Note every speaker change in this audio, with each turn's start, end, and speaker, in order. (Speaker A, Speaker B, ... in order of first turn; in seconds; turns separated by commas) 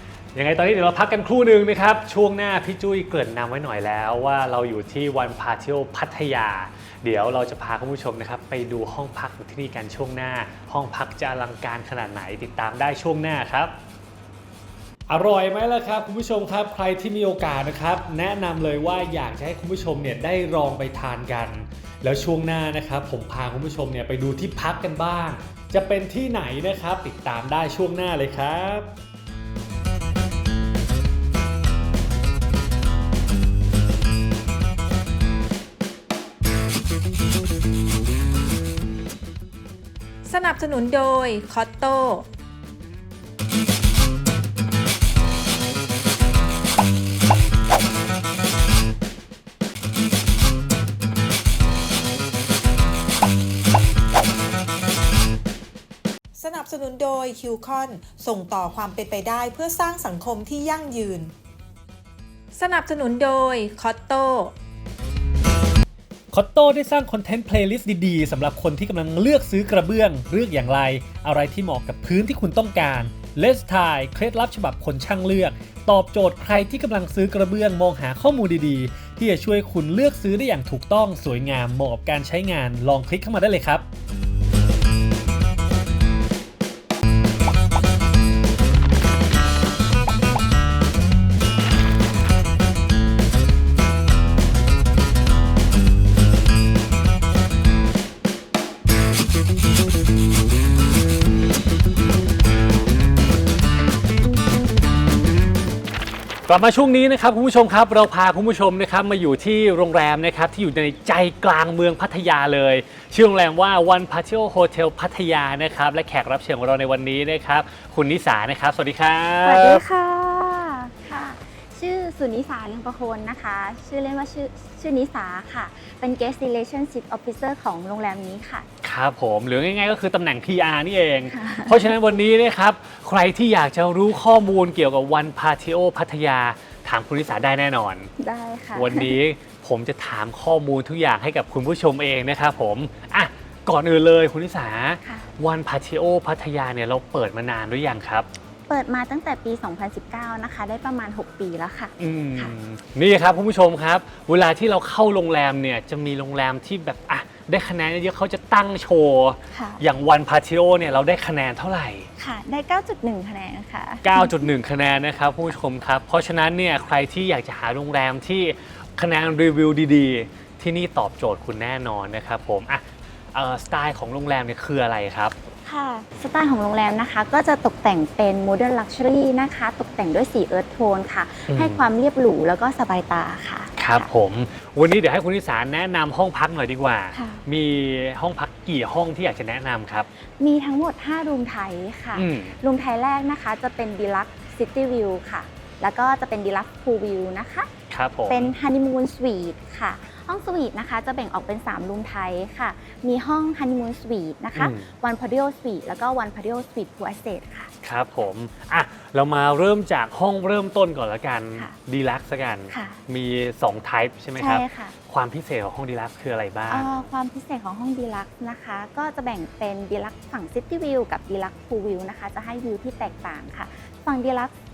Speaker A: 0.3-13.7, Speaker A: 15.1-28.9, Speaker B: 40.2-42.3, Speaker B: 56.3-61.3, Speaker B: 62.5-64.5, Speaker A: 66.3-83.8, Speaker A: 106.5-119.8, Speaker C: 119.4-128.7, Speaker A: 128.8-138.1, Speaker C: 131.3-131.9, Speaker C: 138.2-139.1, Speaker A: 138.7-148.3, Speaker C: 145.0-145.3, Speaker C: 148.7-152.5, Speaker A: 152.0-162.1, Speaker C: 159.5-159.8, Speaker C: 162.2-164.5, Speaker A: 164.0-175.3, Speaker C: 175.6-184.1, Speaker A: 181.5-181.9, Speaker A: 183.8-190.1, Speaker C: 187.1-187.4, Speaker C: 190.2-197.7, Speaker A: 192.1-192.5, Speaker A: 197.9-198.6, Speaker C: 198.3-207.7, Speaker A: 204.6-204.9, Speaker A: 207.8-216.9, Speaker C: 212.7-213.0, Speaker C: 214.4-214.9, Speaker C: 216.7-224.5